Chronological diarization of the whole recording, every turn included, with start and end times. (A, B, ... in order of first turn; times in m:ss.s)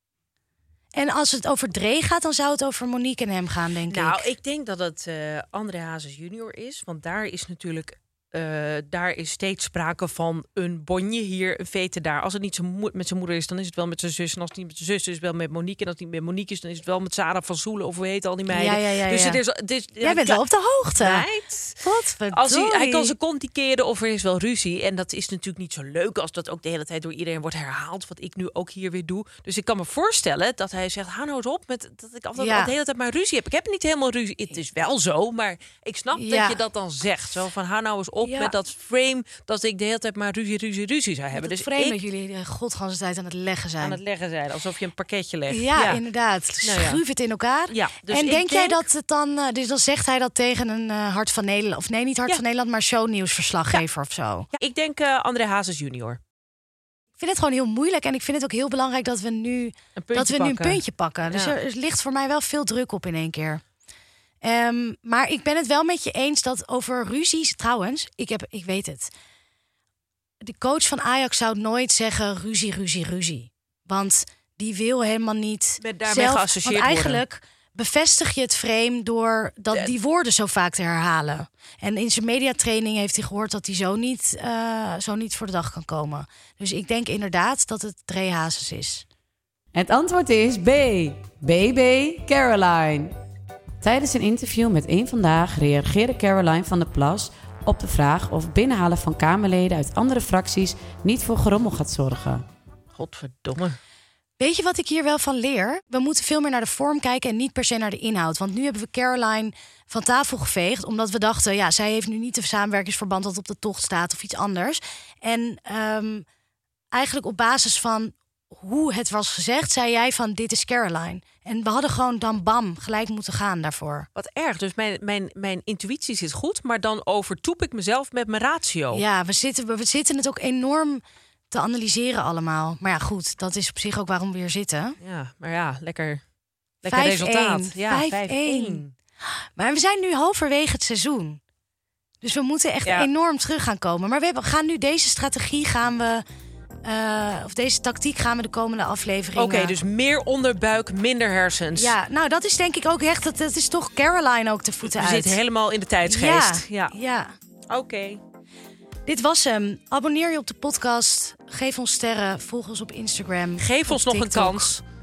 0:00.9-0:04.2 A
0:03.9-0:20.4 B
0:18.5-0:19.4 A
0:20.0-0:21.2 A
0:21.0-0:21.8 B
0:21.8-0:23.1 A
0:22.3-0:42.0 B
0:32.4-0:32.7 A
0:36.2-0:36.6 A
0:38.2-0:38.5 A
0:41.3-0:44.0 A
0:43.8-0:46.0 B
0:45.5-0:54.5 A
0:46.6-0:47.0 B
0:47.7-0:48.8 B
0:54.6-0:56.2 B
0:57.2-1:03.6 A
1:00.0-1:01.5 B
1:04.4-1:09.1 A
1:10.4-1:29.0 A
1:15.8-1:17.2 B
1:29.7-1:33.1 C
1:33.8-1:42.4 C
1:42.9-1:43.8 B
1:44.4-1:56.2 A
1:56.9-2:04.1 A
2:04.2-2:09.0 B
2:08.9-2:15.0 A
2:15.0-2:16.2 B
2:16.8-2:18.9 B
2:16.9-2:21.4 A
2:22.2-2:26.2 A
2:26.8-2:29.7 A
2:29.4-2:31.9 B
2:31.8-2:35.4 A
2:34.8-2:36.9 B
2:36.1-2:37.3 A
2:37.7-2:38.2 B
2:39.0-2:44.7 A
2:43.6-2:44.8 B